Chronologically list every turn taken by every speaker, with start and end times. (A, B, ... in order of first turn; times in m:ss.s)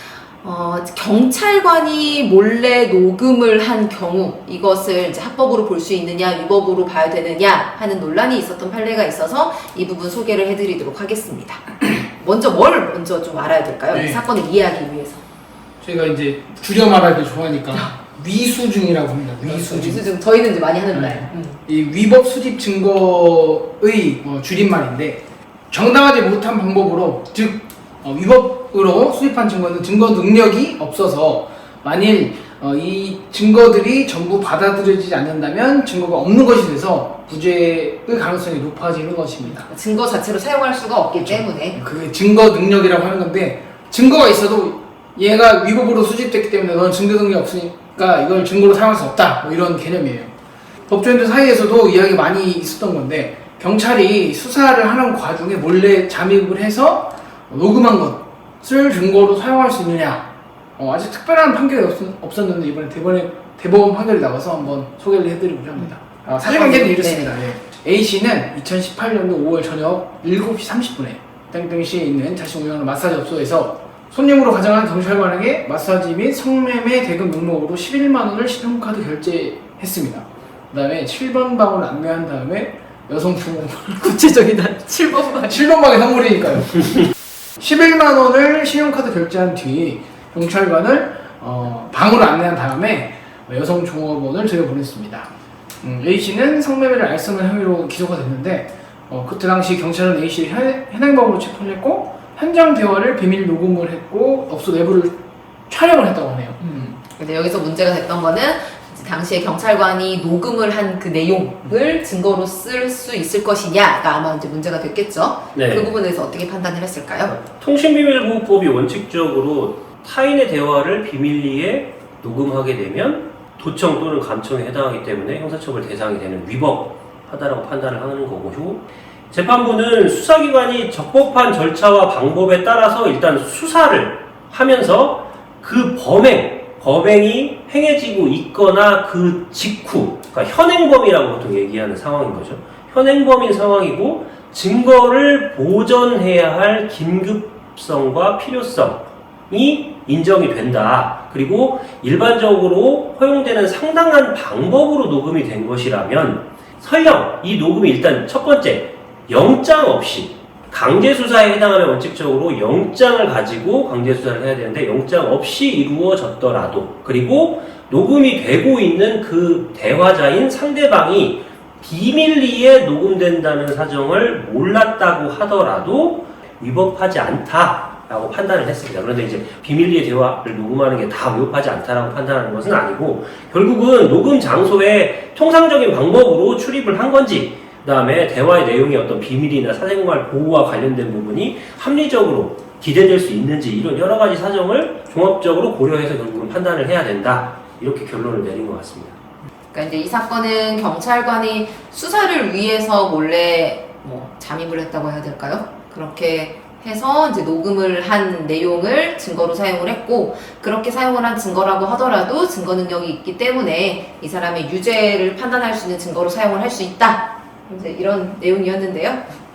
0:00.4-0:15.2 A
0:13.9-0:14.2 B
0:15.8-0:20.1 B
0:19.4-0:21.6 A
0:20.9-0:39.7 B
0:39.5-0:41.8 A
0:41.2-0:50.3 B
0:50.9-1:24.4 B
1:06.4-1:07.3 A
1:24.2-1:25.5 A
1:25.4-1:27.0 B
1:27.6-1:46.8 B
1:46.6-1:57.3 A
1:55.5-1:55.9 C
1:57.3-3:19.1 C
3:19.7-3:39.2 A